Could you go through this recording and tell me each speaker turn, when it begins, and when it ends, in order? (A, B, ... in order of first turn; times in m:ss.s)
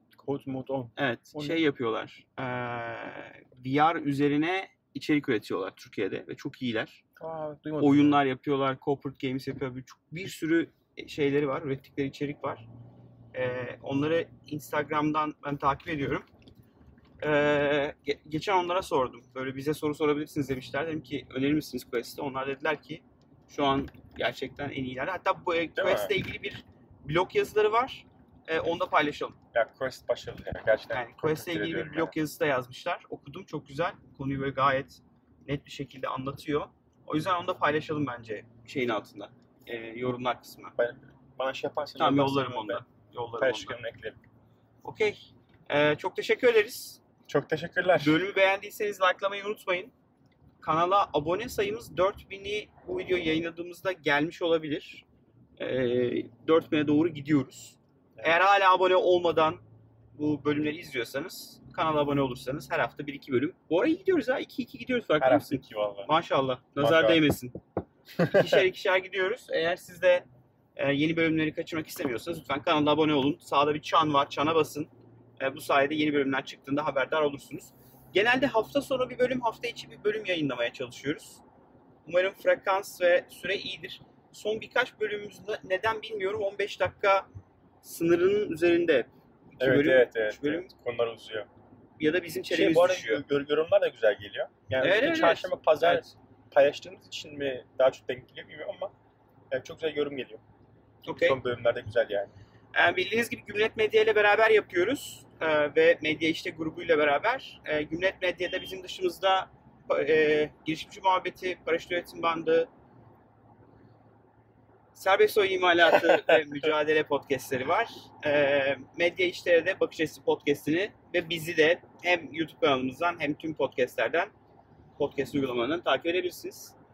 0:00.2-0:01.6 A
0:01.0-0:07.0 B
0:07.2-0:08.2 A
0:07.8-0:12.6 B
0:13.3-0:16.2 B
0:17.2-0:29.4 B
0:25.8-0:26.1 A
0:29.5-0:32.1 A
0:30.9-0:40.8 B
0:40.8-0:42.8 A
0:42.0-0:43.8 B
0:43.4-0:44.2 A
0:44.8-0:45.2 B
0:45.7-0:47.0 B
0:47.3-0:48.2 A
0:48.0-0:49.9 B
0:50.6-0:55.0 B
0:55.6-0:59.6 B
1:00.1-1:07.6 B
1:05.2-1:06.1 A
1:06.8-1:07.2 A
1:08.2-1:08.6 A
1:08.2-1:21.4 B
1:22.0-1:27.3 B
1:27.8-1:30.7 B
1:29.6-1:31.5 A
1:32.0-1:33.2 B
1:32.5-1:38.9 A
1:34.8-1:36.1 B
1:39.5-1:40.4 A
1:41.0-1:41.4 B
1:41.1-1:42.3 A
1:42.7-1:52.7 B
1:54.9-2:04.3 B
2:05.0-2:06.8 B